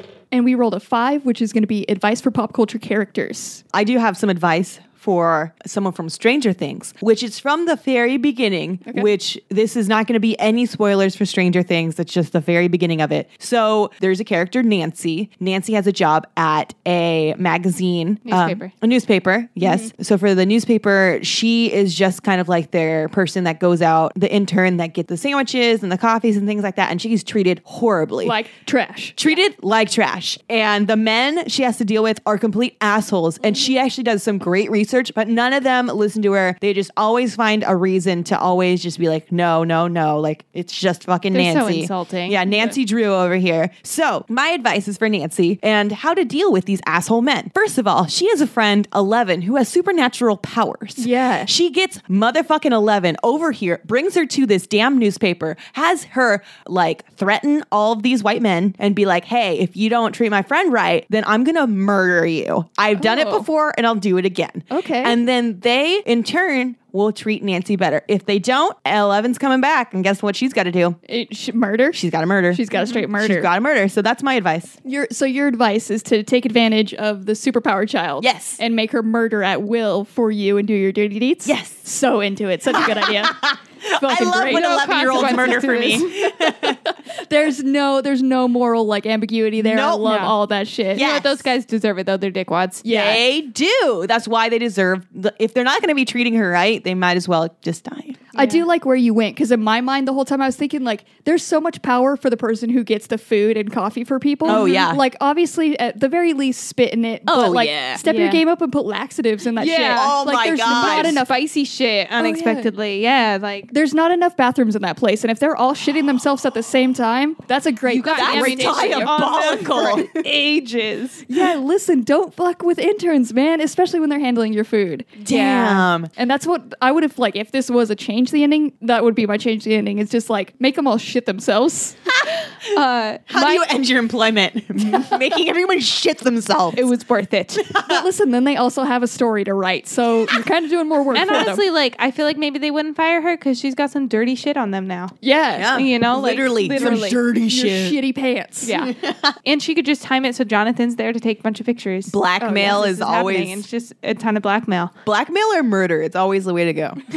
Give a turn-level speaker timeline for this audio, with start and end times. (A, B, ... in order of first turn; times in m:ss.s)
0:00.3-0:03.6 A
0:03.7-0:28.4 B
0:08.8-0:09.1 A
0:18.3-0:18.7 C
0:19.6-0:19.9 A
0:28.2-0:29.3 A
0:29.2-1:11.0 B
0:41.3-0:42.4 C
0:42.5-0:42.7 A
0:51.0-0:51.5 A
1:03.0-1:03.5 A
1:04.7-1:05.2 A
1:11.1-1:13.5 A
1:11.9-1:14.8 B
1:14.8-1:31.1 A
1:18.2-1:18.6 B
1:21.4-1:21.8 B
1:22.7-1:26.8 B
1:24.3-1:26.1 C
1:29.6-1:30.2 B
1:30.0-1:30.4 C
1:31.0-1:31.4 B
1:31.0-1:32.9 C
1:32.8-1:33.2 A
1:32.9-1:38.2 B
1:38.4-1:51.3 A
1:38.4-1:38.7 C
1:44.4-1:44.9 C
1:44.5-1:45.0 B
1:47.3-1:48.0 B
1:48.0-1:48.4 C
1:49.6-1:53.7 C
1:49.7-1:51.2 B
1:52.2-1:52.7 A
1:53.7-1:59.2 A
1:57.9-2:01.2 C
1:58.1-2:00.1 B
2:01.3-2:05.3 A
2:05.2-2:06.1 B
2:05.3-2:05.9 C
2:06.1-2:12.1 A
2:12.6-2:13.7 C
2:13.3-2:16.9 B
2:16.8-2:17.7 C
2:17.6-2:18.1 B
2:17.8-2:21.6 A
2:21.1-2:25.1 C
2:25.2-2:25.8 A
2:25.6-2:28.0 B
2:25.7-2:27.2 C
2:26.8-2:28.7 A
2:28.6-2:28.9 C
2:28.7-2:29.4 B
2:29.4-2:34.9 C
2:32.1-2:33.6 B
2:32.4-2:32.9 A
2:35.0-2:37.0 B